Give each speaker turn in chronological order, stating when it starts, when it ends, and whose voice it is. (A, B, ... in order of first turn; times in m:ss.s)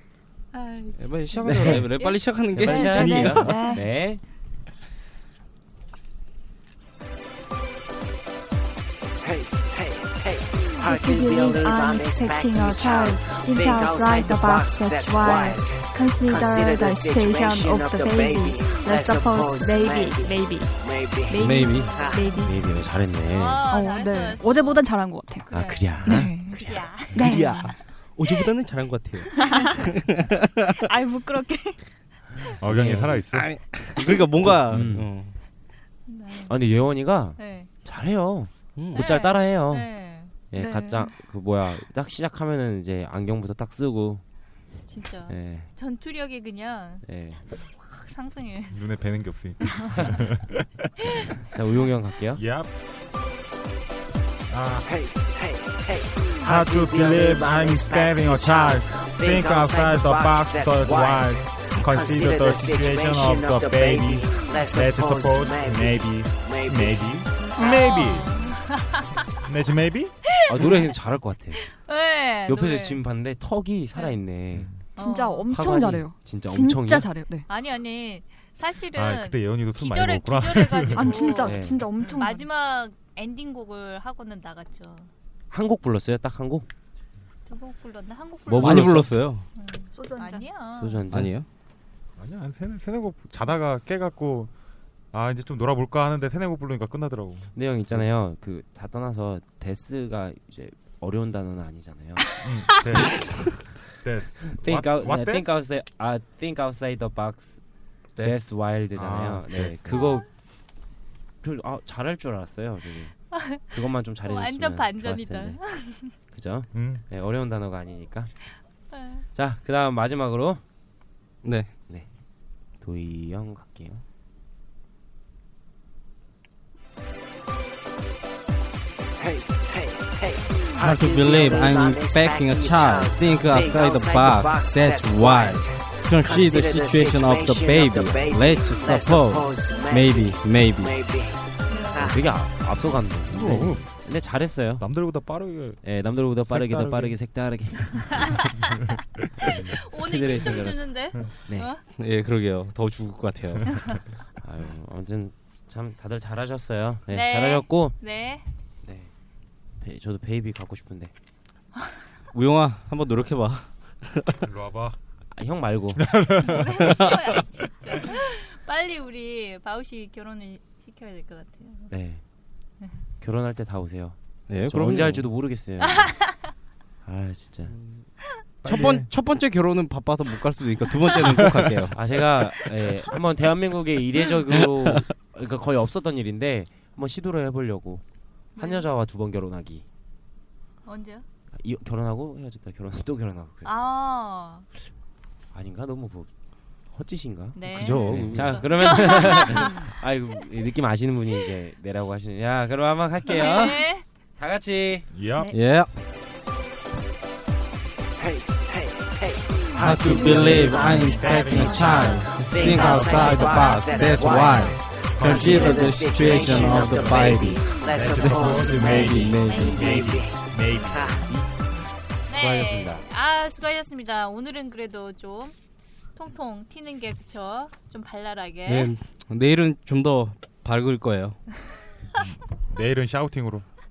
0:00.5-0:01.0 A
0:01.0-0:03.6 B
0:01.4-0:01.9 C
0:02.5-0:04.2 D
0:02.7-0:03.8 E
0:03.0-0:03.6 C
0:09.2-0:22.3 F
0:10.8-0:20.7 E
0:21.3-0:22.5 E
0:21.3-0:21.9 B
0:22.4-0:23.6 D
0:23.3-0:24.9 A
0:23.7-0:25.5 E
0:25.5-0:27.4 A
0:25.5-0:27.1 D
0:26.1-0:26.6 E
0:27.1-0:30.6 B
0:27.1-0:27.7 E
0:29.4-0:29.7 E
0:30.8-0:31.8 E
0:32.6-0:33.6 C
0:32.6-0:33.3 D
0:33.3-0:35.3 B
0:34.5-0:35.1 D
0:34.7-0:35.0 C
0:36.1-0:36.6 A
0:36.5-0:44.2 D
0:37.4-0:37.7 A
0:38.8-0:39.0 B
0:38.9-0:40.3 A
0:40.6-0:41.1 E
0:44.9-0:47.0 A
0:45.3-0:45.7 D
0:47.0-0:47.4 D
0:47.6-0:48.8 A
0:48.7-0:50.7 C
0:51.5-0:52.4 D
0:52.3-0:52.7 C
0:54.5-0:54.9 C
0:54.8-1:07.7 F
0:56.4-1:08.3 C
1:07.6-1:09.3 A
1:09.4-1:10.1 C
1:10.5-1:11.6 D
1:10.5-1:10.9 A
1:11.5-1:13.0 A
1:12.5-1:14.9 D
1:14.5-1:14.8 C
1:15.0-1:15.5 A
1:15.0-1:17.4 E
1:15.5-1:17.1 D
1:17.5-1:25.1 A
1:18.9-1:21.1 C
1:20.9-1:22.4 E
1:21.3-1:21.9 D
1:25.5-1:26.7 D
1:27.4-1:31.0 A
1:28.5-1:29.4 B
1:28.6-1:28.9 D
1:29.9-1:30.5 E
1:30.7-1:31.4 D
1:31.1-1:31.4 B
1:32.2-1:34.5 C
1:35.1-1:38.1 C
1:37.5-1:43.2 D
1:42.4-1:45.5 C
1:44.5-1:47.6 D
1:48.2-1:50.3 D
1:48.9-1:50.2 C
1:49.9-1:50.2 A
1:51.4-1:58.3 D
1:53.3-1:56.1 A
1:56.7-1:57.0 C
1:58.9-1:59.3 A
1:59.3-2:00.6 D
2:01.4-2:01.7 B
2:02.8-2:04.0 D
2:09.2-2:21.4 F
2:10.7-2:21.0 B
2:21.7-2:22.1 A
2:21.9-2:22.2 F
2:22.0-2:24.9 D
2:23.3-2:24.0 C
2:24.8-2:27.2 C
2:25.8-2:28.4 D
2:27.9-2:28.8 C
2:29.4-2:31.7 D
2:29.4-2:31.8 A
2:32.0-2:33.9 B
2:34.4-2:38.0 D
2:37.1-2:38.5 A
2:38.8-2:39.1 D
2:39.8-2:41.1 D
2:42.3-2:44.4 B
2:44.4-2:45.0 C
2:45.3-2:46.2 D
2:46.0-2:47.0 C
2:46.4-2:51.9 A
2:51.9-2:52.2 D
2:53.2-2:56.3 D
2:54.5-2:55.3 B
2:57.0-2:57.7 D
2:58.6-2:59.1 C
2:58.6-3:02.0 B
3:01.9-3:08.0 D
3:08.5-3:09.8 D
3:08.6-3:08.9 A
3:10.8-3:11.2 A
3:11.5-3:13.9 D
3:13.6-3:14.7 A
3:15.5-3:16.3 D
3:16.9-3:25.1 D
3:17.5-3:19.7 A
3:17.7-3:18.6 B
3:18.1-3:18.4 C
3:23.3-3:24.0 A
3:23.4-3:23.7 B
3:25.1-3:25.6 C
3:25.5-3:25.9 B
3:28.2-3:41.3 F
3:29.8-3:34.6 B
3:29.8-3:35.9 C
3:32.6-3:34.8 A
3:35.2-3:40.0 B
3:36.5-3:41.5 C
3:39.4-3:39.7 A
3:42.3-3:45.5 A
3:42.4-3:43.0 D
3:46.1-3:48.9 A
3:48.6-3:51.5 B
3:52.1-3:53.6 C